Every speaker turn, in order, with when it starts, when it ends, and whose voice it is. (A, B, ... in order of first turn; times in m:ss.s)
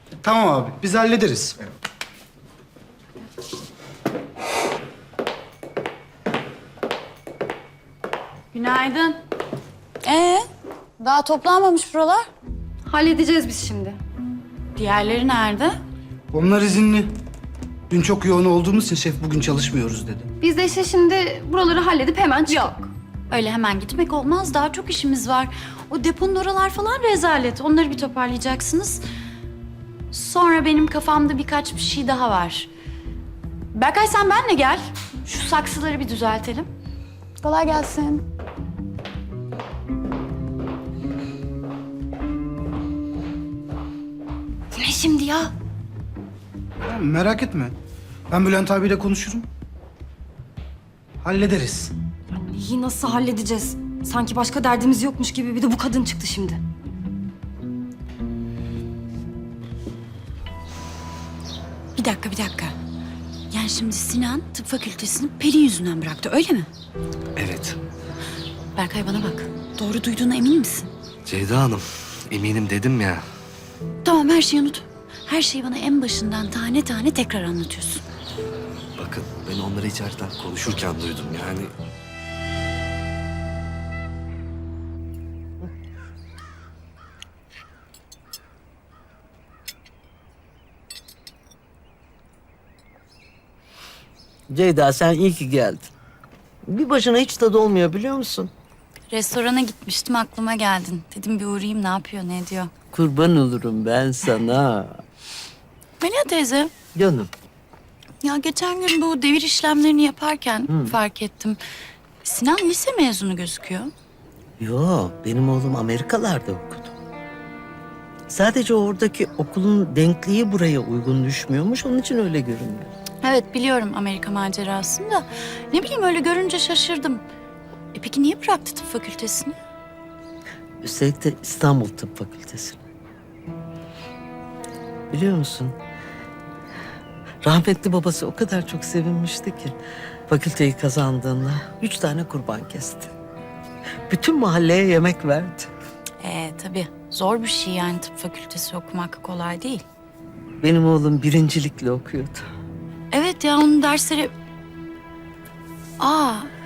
0:00.2-0:01.5 A
0:08.5-0:09.2 B
0:10.0-0:10.4 B
0:11.0-0:12.3 B
0:12.9-0:14.0 C
0:14.8-0:15.8 B
0:16.3-0:17.1 A
0:17.9-0:20.3 A
0:20.4-0:22.9 C
0:23.3-0:29.0 B
0:30.1-0:32.7 B
0:33.7-0:36.7 B
0:37.4-0:38.2 B
0:44.8-0:45.5 B
0:46.8-0:47.8 A
0:48.3-0:49.5 A
0:51.2-0:51.9 A
0:52.3-0:56.6 C
1:02.0-1:02.7 B
1:03.5-1:06.7 B
1:07.4-1:07.8 D
1:08.7-1:10.9 B
1:11.2-1:13.2 D
1:14.0-1:18.0 B
1:19.0-1:21.7 D
1:34.5-1:35.9 E
1:36.7-1:38.5 E
1:39.1-1:42.7 B
1:42.9-1:45.0 E
1:46.0-1:46.7 B
1:47.0-1:47.3 E
1:48.2-1:51.6 B
1:52.2-1:53.9 B
1:54.6-1:56.9 E
1:58.3-2:02.9 E
2:03.2-2:07.2 B
2:07.9-2:09.5 B
2:10.8-2:12.8 E
2:15.1-2:15.7 E
2:17.4-2:19.8 E
2:20.3-2:23.1 E
2:24.1-2:25.7 E
2:26.2-2:29.8 B
2:30.6-2:32.4 E
2:33.1-2:34.3 B
2:36.0-2:36.5 B